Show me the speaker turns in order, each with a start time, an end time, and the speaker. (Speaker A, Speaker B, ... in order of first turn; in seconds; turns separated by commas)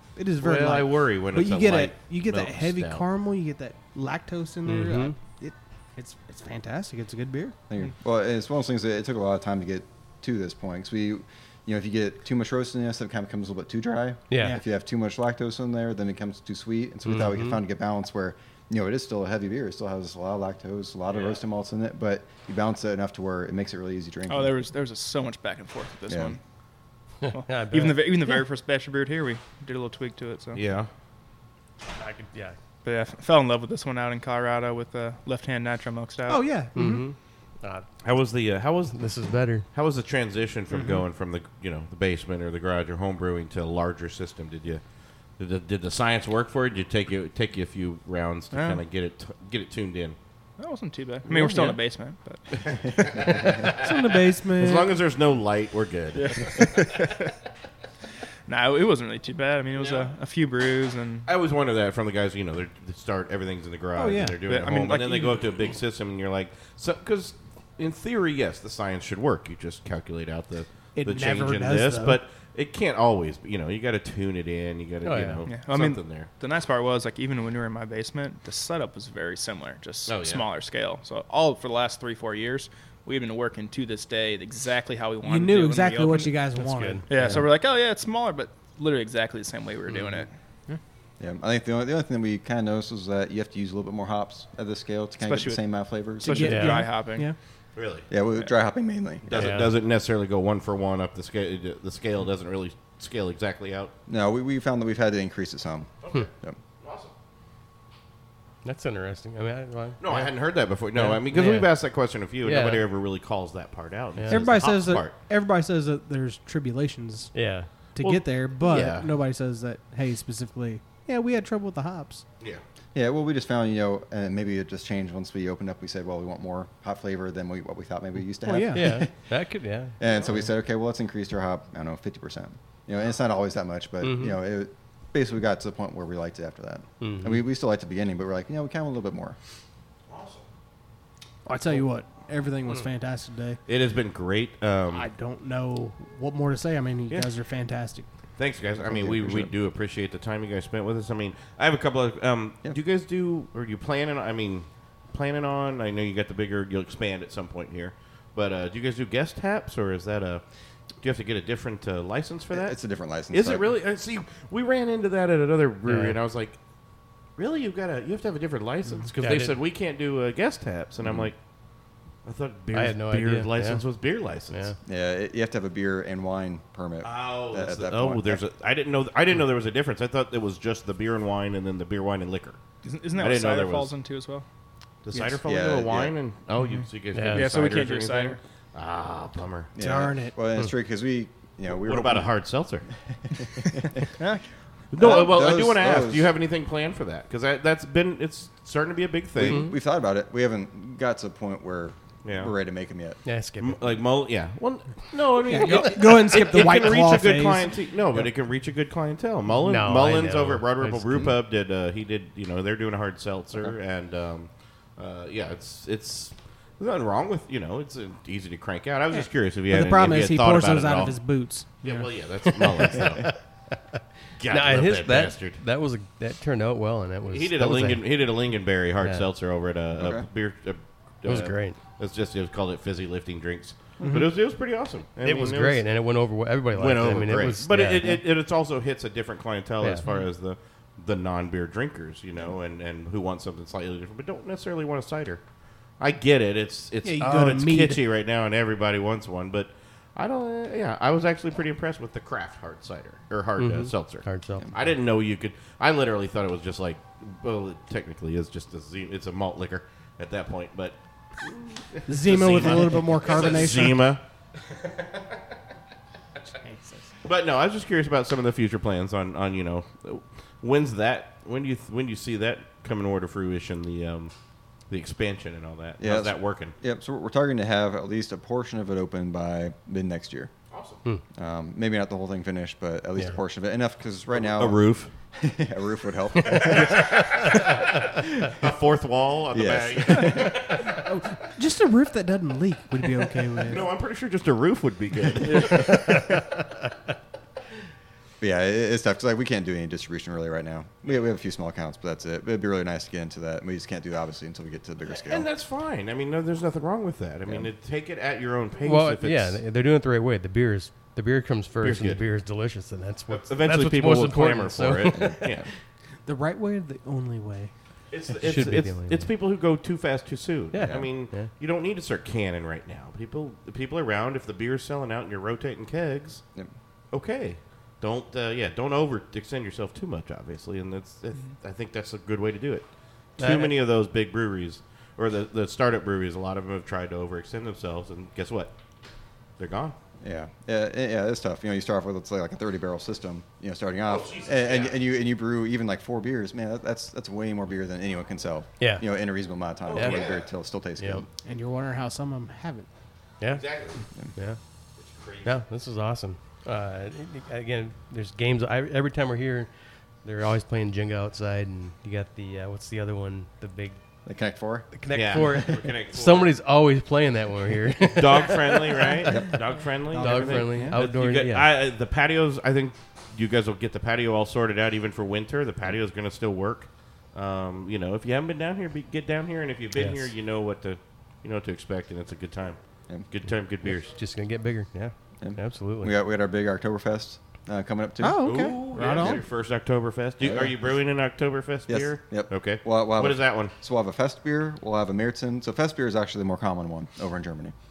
Speaker A: 0.2-7.6, Speaker B: 0.4-3.0, Speaker C: 4.7-5.2, Speaker D: 7.7-24.6, Speaker C: 14.3-14.6, Speaker C: 17.1-17.6, Speaker E: 24.3-26.4, Speaker D: 26.1-26.4, Speaker C: 27.2-28.1, Speaker E: 27.3-30.6, Speaker B: 30.6-30.9, Speaker C: 32.0-32.6, Speaker E: 32.8-36.4, Speaker A: 36.3-37.1, Speaker C: 36.8-37.9, Speaker B: 38.0-39.0, Speaker C: 38.9-39.7, Speaker B: 39.7-44.8, Speaker A: 40.7-41.0, Speaker B: 45.4-50.2, Speaker E: 48.5-48.8, Speaker E: 50.6-52.4, Speaker B: 51.3-51.8, Speaker B: 52.5-56.9, Speaker A: 53.7-55.0, Speaker E: 56.1-57.3, Speaker E: 58.5-61.3, Speaker B: 59.8-60.1, Speaker B: 61.3-76.3, Speaker A: 64.0-64.4, Speaker E: 64.5-65.7, Speaker A: 71.0-72.2, Speaker C: 75.0-75.4, Speaker E: 75.5-86.4, Speaker B: 80.1-80.5, Speaker A: 85.2-87.5, Speaker C: 86.6-87.4, Speaker E: 87.1-90.3, Speaker D: 91.2-96.5, Speaker E: 95.2-95.6, Speaker E: 96.2-97.3, Speaker A: 96.2-97.3, Speaker C: 96.5-96.8, Speaker B: 97.8-98.1, Speaker D: 98.1-99.5, Speaker B: 99.3-103.9, Speaker C: 99.3-99.7, Speaker D: 104.1-106.6, Speaker B: 106.0-107.1, Speaker C: 108.7-110.3, Speaker B: 110.0-115.1, Speaker C: 111.0-111.7, Speaker C: 112.4-112.8, Speaker C: 114.2-114.4, Speaker A: 114.3-117.3, Speaker C: 117.3-117.7, Speaker A: 118.0-122.2, Speaker B: 118.0-119.1, Speaker D: 122.9-129.1, Speaker A: 128.4-129.0, Speaker C: 128.7-129.9, Speaker D: 130.0-139.4, Speaker C: 134.0-134.4, Speaker C: 137.0-137.4, Speaker B: 140.1-140.5, Speaker A: 141.4-143.6, Speaker B: 143.7-145.1, Speaker A: 144.9-148.1, Speaker B: 148.4-160.4, Speaker D: 148.8-149.5, Speaker B: 161.0-162.8, Speaker D: 162.5-163.7, Speaker B: 163.3-166.6, Speaker C: 165.9-166.2, Speaker B: 167.4-171.4, Speaker C: 169.2-169.6, Speaker B: 172.2-174.7, Speaker C: 172.7-173.8, Speaker C: 174.5-174.8, Speaker D: 174.9-178.4, Speaker B: 177.0-182.6, Speaker E: 182.8-184.5, Speaker B: 183.1-183.9, Speaker B: 185.1-189.7, Speaker A: 185.1-185.4, Speaker D: 185.4-186.2, Speaker E: 186.6-188.4, Speaker C: 187.1-187.5, Speaker D: 189.8-192.3, Speaker A: 189.8-190.4, Speaker B: 191.7-192.9, Speaker D: 193.3-194.0, Speaker E: 194.2-194.4, Speaker B: 194.9-199.7, Speaker D: 195.0-196.3, Speaker D: 199.4-203.2, Speaker C: 199.5-199.8, Speaker B: 202.2-202.5, Speaker C: 203.2-203.8, Speaker B: 203.6-221.2, Speaker A: 205.4-207.7, Speaker C: 209.6-211.3, Speaker A: 219.1-222.1, Speaker B: 221.8-223.3, Speaker A: 222.6-222.9, Speaker B: 224.4-225.6, Speaker C: 224.5-228.1, Speaker B: 227.3-235.8, Speaker C: 229.0-229.3, Speaker D: 229.9-230.2, Speaker C: 231.2-231.8, Speaker A: 234.0-234.3, Speaker C: 235.2-238.2, Speaker B: 236.8-245.4, Speaker B: 246.0-264.2, Speaker A: 247.0-248.0, Speaker C: 253.6-254.7, Speaker A: 262.1-264.1, Speaker B: 265.0-265.2, Speaker E: 266.7-267.0, Speaker B: 267.2-274.3, Speaker B: 274.9-276.7, Speaker D: 276.0-280.5, Speaker B: 280.7-281.0, Speaker D: 281.4-284.8, Speaker B: 284.3-285.1, Speaker D: 285.3-287.2, Speaker B: 286.5-291.0, Speaker D: 289.5-290.8, Speaker A: 291.1-293.9, Speaker B: 293.6-296.5, Speaker D: 298.4-305.5, Speaker B: 305.1-309.6, Speaker C: 308.8-315.4, Speaker B: 311.8-312.2, Speaker B: 313.3-315.7, Speaker A: 316.2-317.7, Speaker B: 318.1-326.4, Speaker C: 318.4-319.3, Speaker C: 320.7-321.5, Speaker B: 327.1-332.9, Speaker B: 333.4-338.8, Speaker C: 333.4-333.8, Speaker B: 339.6-340.0, Speaker D: 340.2-351.3, Speaker B: 344.1-345.0, Speaker C: 348.8-349.1, Speaker B: 349.9-350.4, Speaker C: 349.9-350.2, Speaker C: 351.0-351.2, Speaker A: 351.4-352.9, Speaker C: 353.4-353.7, Speaker B: 353.5-354.0, Speaker B: 355.0-355.5, Speaker C: 355.4-359.7, Speaker C: 360.2-364.0, Speaker D: 364.3-364.9, Speaker C: 364.9-369.6, Speaker B: 365.1-366.5, Speaker D: 365.4-365.8, Speaker B: 368.0-384.1, Speaker A: 370.1-371.0, Speaker C: 370.1-371.7, Speaker C: 380.0-380.3, Speaker C: 384.0-386.1, Speaker D: 385.4-388.6, Speaker A: 388.2-389.4, Speaker B: 388.4-393.7, Speaker D: 389.2-389.4, Speaker D: 390.4-391.0, Speaker D: 391.9-397.8